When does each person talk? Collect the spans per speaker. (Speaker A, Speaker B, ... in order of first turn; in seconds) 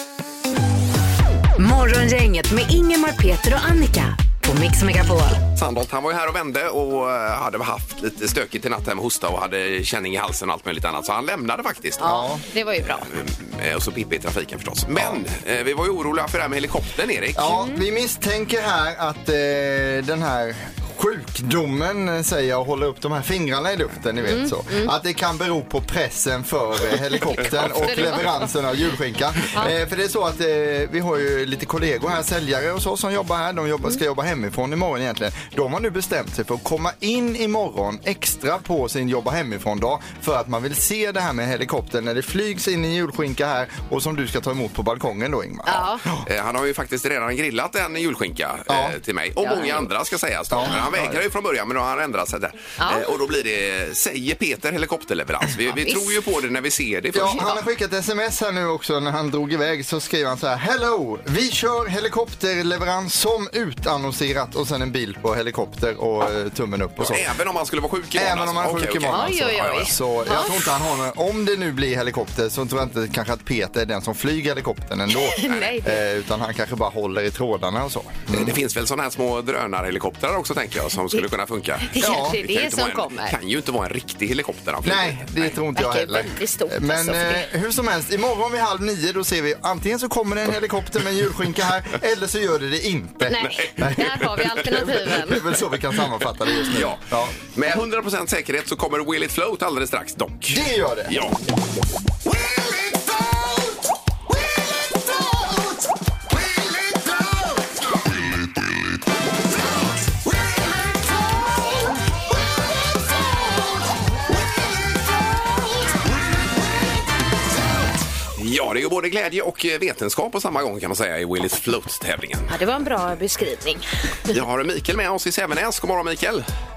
Speaker A: 1.6-5.4
Speaker B: 5.5-12.0, 12.9-17.6, 46.2-57.6, 67.0-69.9, 78.3-85.5, 93.4-93.9, 96.7-101.3, 118.3-122.5, 124.3-126.4
Speaker C: 12.0-13.1, 17.5-17.8, 24.2-24.9, 27.4-28.5, 45.6-46.0, 49.4-49.9, 52.8-53.0, 55.7-56.1, 69.1-70.6, 75.1-76.0, 81.9-83.3, 85.7-87.5, 93.2-95.5, 122.5-124.3
Speaker D: 12.0-12.4, 14.9-15.2, 17.3-46.2, 48.7-49.0, 50.5-51.2, 57.1-67.2, 68.1-78.5, 82.0-82.4, 84.8-97.4, 100.5-101.2